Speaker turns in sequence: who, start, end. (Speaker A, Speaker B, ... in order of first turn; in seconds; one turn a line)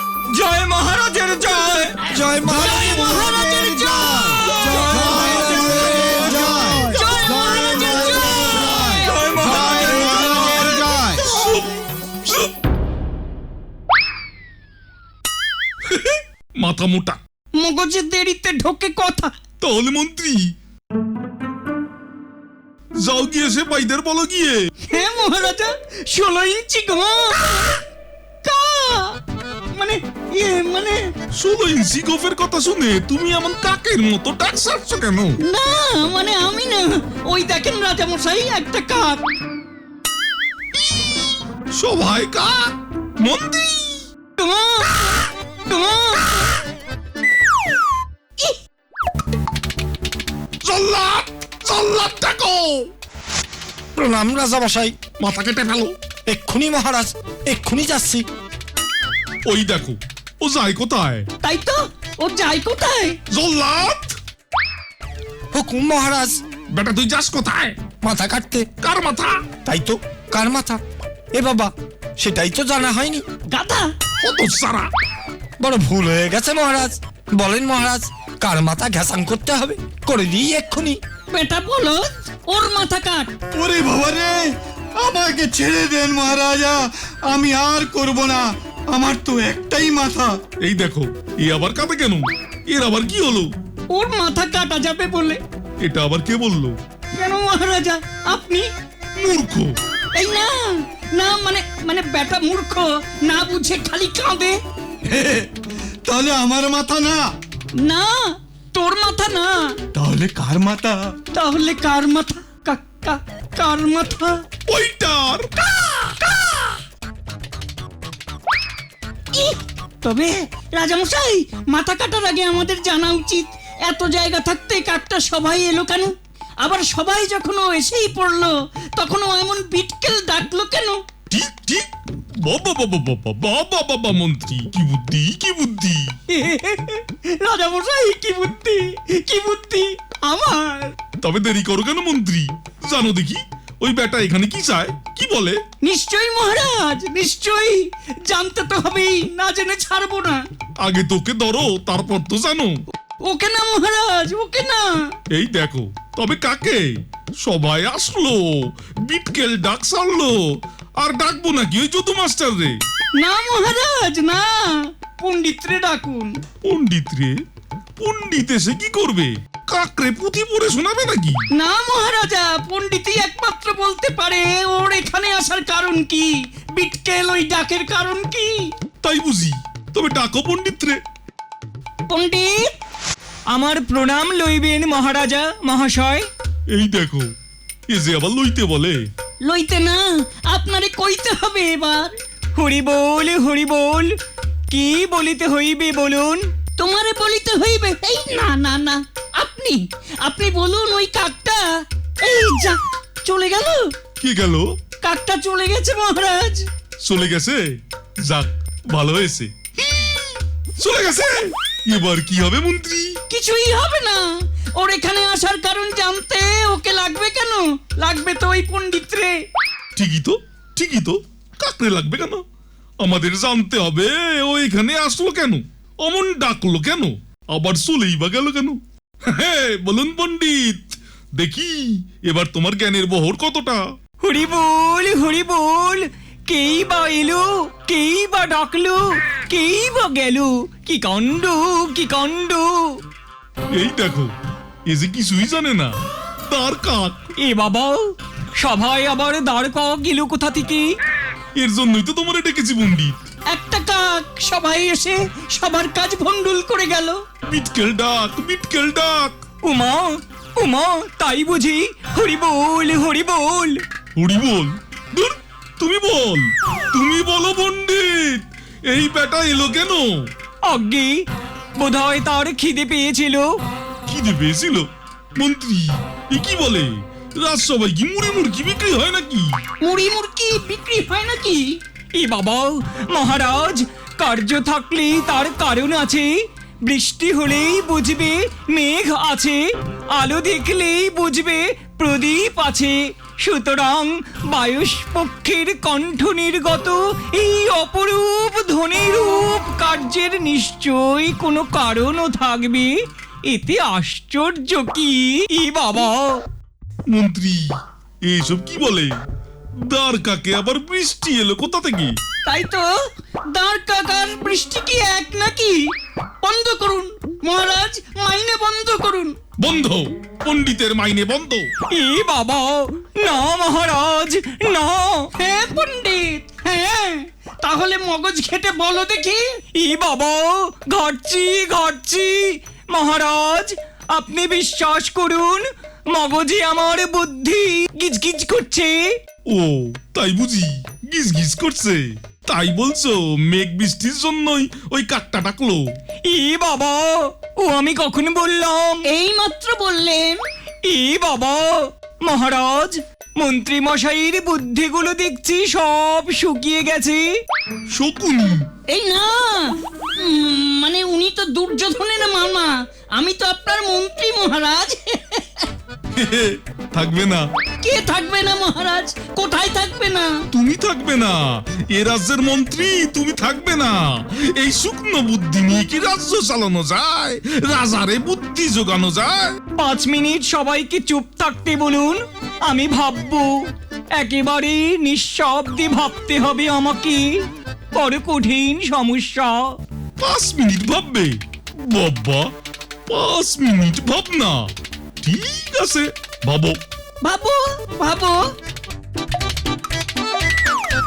Speaker A: 0.3-2.0
Speaker B: 2.1-2.8
Speaker C: 2.2-11.2
Speaker D: 2.5-6.1
Speaker A: 4.3-6.0
Speaker B: 5.1-6.9
Speaker D: 6.8-9.2
Speaker A: 8.6-10.1
Speaker E: 9.8-12.5
Speaker D: 10.3-10.8
Speaker E: 15.9-17.2
Speaker D: 17.6-19.3
Speaker E: 19.6-20.5
Speaker E: 23.0-24.7
Speaker D: 24.9-27.8
Speaker D: 28.4-29.2
Speaker D: 29.7-31.1
Speaker E: 31.3-35.4
Speaker D: 35.4-39.2
Speaker E: 40.9-44.1
Speaker D: 44.4-46.6
Speaker E: 50.6-52.9
Speaker B: 54.0-55.0
Speaker E: 55.2-56.0
Speaker B: 56.3-58.2
Speaker E: 59.4-61.3
Speaker D: 61.4-63.2
Speaker E: 63.3-64.2
Speaker B: 65.5-66.4
Speaker E: 66.7-67.8
Speaker B: 68.0-68.7
Speaker E: 68.8-69.4
Speaker B: 69.7-70.8
Speaker B: 71.3-73.2
Speaker D: 73.5-73.9
Speaker E: 74.2-74.9
Speaker B: 75.6-81.0
Speaker D: 81.3-83.3
Speaker C: 83.5-90.4
Speaker E: 90.6-93.5
Speaker D: 93.9-95.4
Speaker E: 95.8-96.8
Speaker D: 97.1-98.7
Speaker E: 99.2-99.8
Speaker D: 100.1-104.6
Speaker C: 105.0-105.5
Speaker C: 106.0-107.3
Speaker D: 107.8-109.8
Speaker C: 109.9-111.1
Speaker D: 111.3-114.4
Speaker E: 114.7-115.8
Speaker D: 119.3-131.0
Speaker E: 131.3-131.9
Speaker E: 132.4-136.1
Speaker D: 136.3-140.9
Speaker E: 141.2-145.6
Speaker D: 145.8-150.4
Speaker E: 150.8-152.8
Speaker D: 153.2-155.1
Speaker E: 155.3-160.4
Speaker E: 161.0-162.8
Speaker D: 163.2-166.4
Speaker E: 166.6-167.3
Speaker E: 168.0-171.4
Speaker D: 171.5-178.7
Speaker E: 179.0-181.0
Speaker D: 182.1-182.7
Speaker A: 183.5-186.3
Speaker E: 186.7-187.3
Speaker E: 187.9-189.1
Speaker D: 189.4-192.1
Speaker A: 192.6-194.1
Speaker A: 194.7-196.4
Speaker D: 196.8-203.9
Speaker E: 204.2-204.6
Speaker D: 205.0-206.7
Speaker E: 207.0-209.5
Speaker E: 210.8-213.2
Speaker D: 213.3-219.4
Speaker E: 219.9-222.4
Speaker E: 223.0-233.8
Speaker A: 234.2-242.9
Speaker E: 243.7-244.3
Speaker E: 244.9-245.9
Speaker E: 246.5-247.2
Speaker A: 247.4-248.0
Speaker A: 248.6-250.8
Speaker E: 251.6-253.2
Speaker D: 253.5-257.2
Speaker E: 257.5-259.4
Speaker A: 259.6-263.8
Speaker E: 264.2-270.3
Speaker A: 270.7-271.2
Speaker A: 271.8-273.5
Speaker E: 274.1-279.6
Speaker D: 279.8-281.8
Speaker A: 282.2-286.3
Speaker A: 286.8-289.6
Speaker A: 290.1-302.9
Speaker A: 303.5-306.4
Speaker E: 307.1-307.7
Speaker E: 308.2-309.1
Speaker E: 309.9-312.2
Speaker D: 312.4-312.9
Speaker D: 313.5-315.8
Speaker D: 316.4-319.4
Speaker E: 319.6-321.7
Speaker A: 321.9-325.3
Speaker D: 325.4-329.4
Speaker A: 329.8-339.0
Speaker E: 339.5-345.8
Speaker A: 346.3-349.0
Speaker D: 349.1-350.4
Speaker A: 350.9-357.3
Speaker E: 357.9-358.7
Speaker D: 358.9-365.7
Speaker E: 366.2-367.5
Speaker D: 367.8-370.3
Speaker E: 370.5-379.6
Speaker A: 379.8-383.5
Speaker A: 384.2-387.3
Speaker A: 387.9-389.6
Speaker E: 390.2-392.5
Speaker E: 393.1-394.7
Speaker E: 395.2-396.8
Speaker D: 397.2-398.5